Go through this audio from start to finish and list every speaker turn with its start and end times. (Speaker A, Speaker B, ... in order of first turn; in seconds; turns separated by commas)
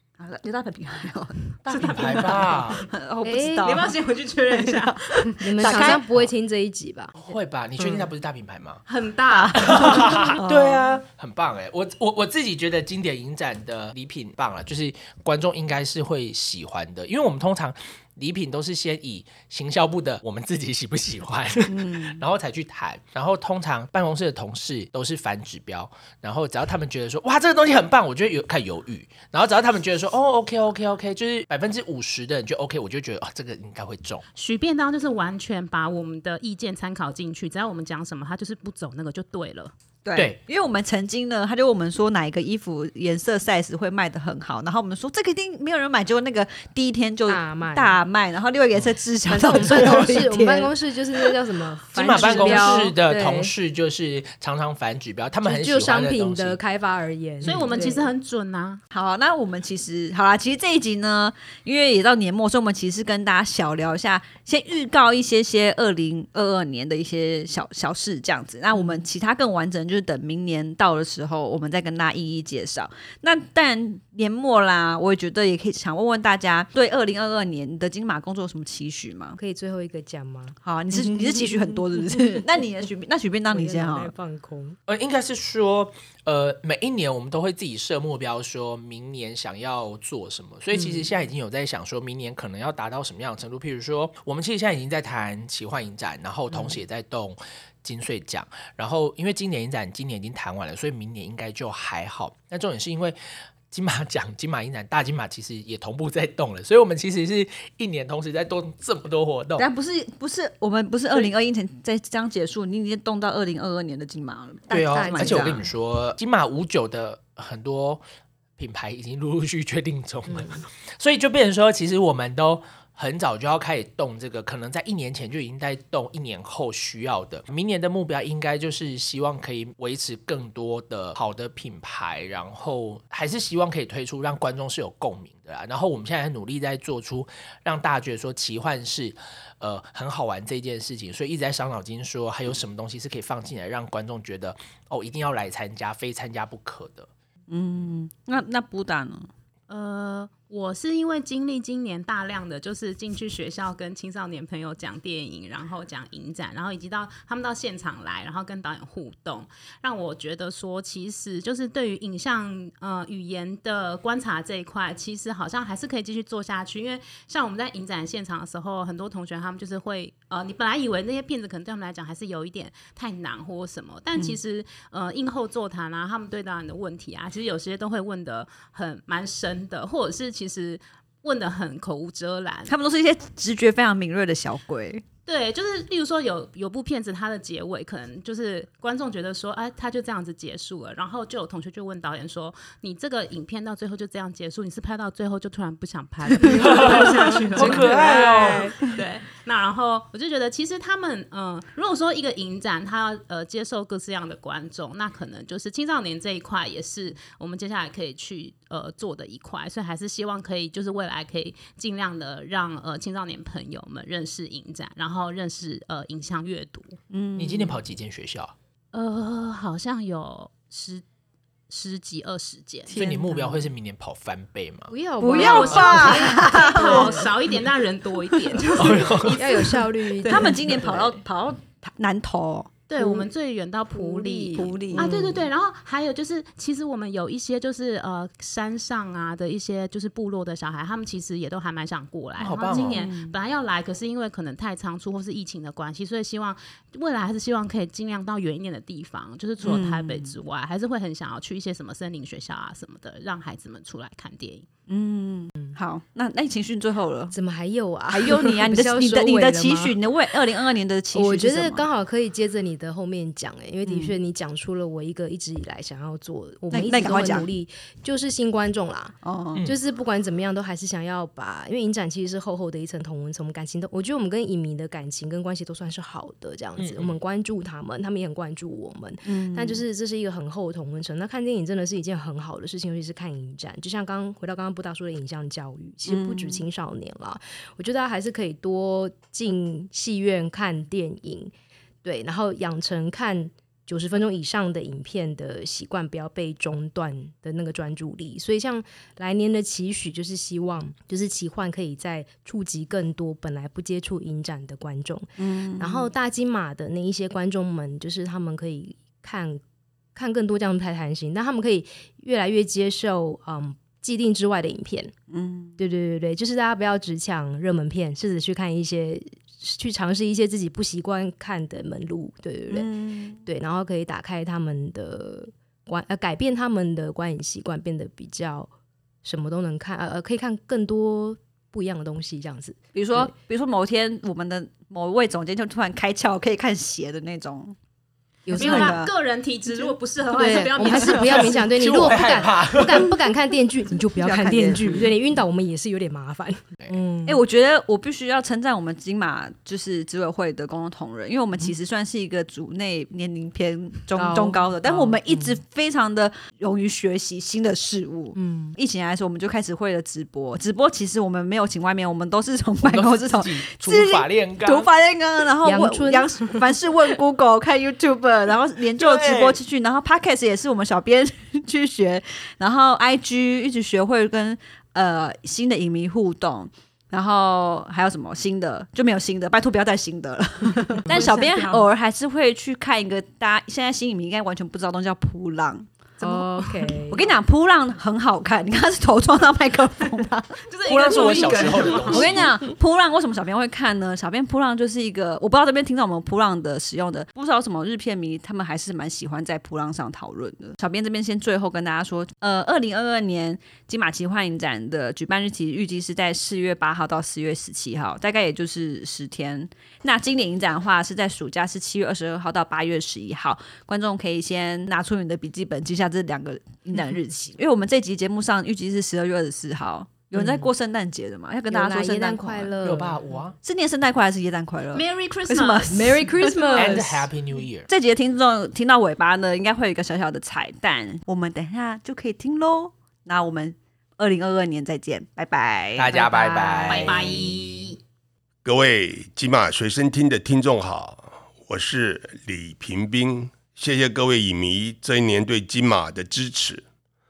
Speaker A: 0.2-3.9, Speaker B: 1.6-2.8, Speaker C: 1.7-2.8, Speaker D: 3.2-3.9, Speaker C: 3.6-6.0, Speaker A: 4.5-6.0, Speaker D: 5.4-7.2, Speaker B: 7.2-8.8, Speaker C: 8.9-10.3, Speaker A: 9.3-10.9, Speaker B: 9.6-34.2, Speaker A: 21.7-22.2, Speaker C: 34.3-39.7, Speaker A: 40.0-50.7, Speaker D: 47.3-48.0, Speaker D: 49.3-53.4, Speaker B: 51.9-56.6, Speaker A: 52.1-53.5, Speaker D: 55.4-58.1, Speaker C: 57.4-58.8, Speaker B: 57.4-57.8, Speaker A: 58.9-79.4, Speaker D: 79.4-82.4, Speaker A: 80.6-84.1, Speaker D: 83.5-84.8, Speaker B: 84.9-103.2, Speaker B: 103.7-109.7, Speaker A: 109.6-115.6, Speaker B: 114.7-118.0, Speaker D: 114.8-115.6, Speaker B: 118.6-147.1, Speaker D: 120.3-120.6, Speaker A: 147.5-149.3, Speaker C: 149.7-182.7, Speaker A: 182.7-185.0, Speaker C: 185.3-217.0, Speaker D: 196.5-198.8, Speaker B: 196.6-198.8, Speaker A: 217.1-217.8, Speaker B: 217.4-218.5, Speaker C: 218.9-221.0, Speaker C: 221.7-222.9, Speaker A: 222.9-223.7, Speaker B: 222.9-224.9, Speaker D: 224.9-227.3, Speaker A: 225.2-227.2, Speaker C: 225.3-230.6, Speaker B: 228.7-229.4, Speaker D: 229.0-231.2, Speaker A: 230.2-233.2, Speaker C: 232.9-254.7, Speaker D: 233.9-235.2, Speaker A: 234.5-235.4, Speaker B: 242.4-243.1, Speaker A: 242.5-243.3, Speaker A: 249.6-250.3, Speaker A: 254.9-257.3, Speaker D: 257.3-260.0, Speaker A: 258.1-261.9, Speaker D: 261.1-291.5, Speaker A: 263.9-264.1, Speaker A: 266.7-267.5, Speaker A: 269.2-269.6, Speaker B: 276.8-277.1, Speaker A: 279.2-279.8, Speaker A: 286.1-286.6, Speaker D: 292.0-309.6, Speaker A: 305.4-306.1, Speaker D: 310.1-315.1, Speaker A: 315.3-315.8, Speaker D: 315.8-322.9, Speaker A: 322.7-323.4, Speaker D: 323.4-328.7, Speaker D: 329.2-333.3, Speaker A: 332.9-337.8, Speaker D: 338.4-339.0, Speaker A: 338.5-339.1, Speaker C: 338.5-341.7, Speaker D: 340.3-347.4, Speaker B: 341.2-343.1, Speaker A: 344.2-345.1, Speaker A: 347.3-386.5, Speaker D: 354.1-355.6, Speaker D: 358.3-358.8, Speaker B: 362.8-364.9, Speaker D: 365.6-366.7, Speaker B: 368.9-369.6, Speaker C: 381.1-381.8, Speaker D: 381.1-381.4, Speaker D: 386.2-387.3, Speaker A: 387.1-422.7, Speaker C: 390.6-392.5, Speaker B: 390.9-392.5, Speaker D: 420.3-420.7, Speaker D: 421.7-423.2, Speaker B: 422.8-423.6, Speaker A: 423.6-427.0, Speaker C: 424.9-426.2, Speaker D: 425.9-427.2, Speaker B: 426.7-427.9, Speaker A: 427.9-437.4, Speaker B: 435.9-437.9, Speaker C: 436.9-438.0, Speaker E: 438.6-446.8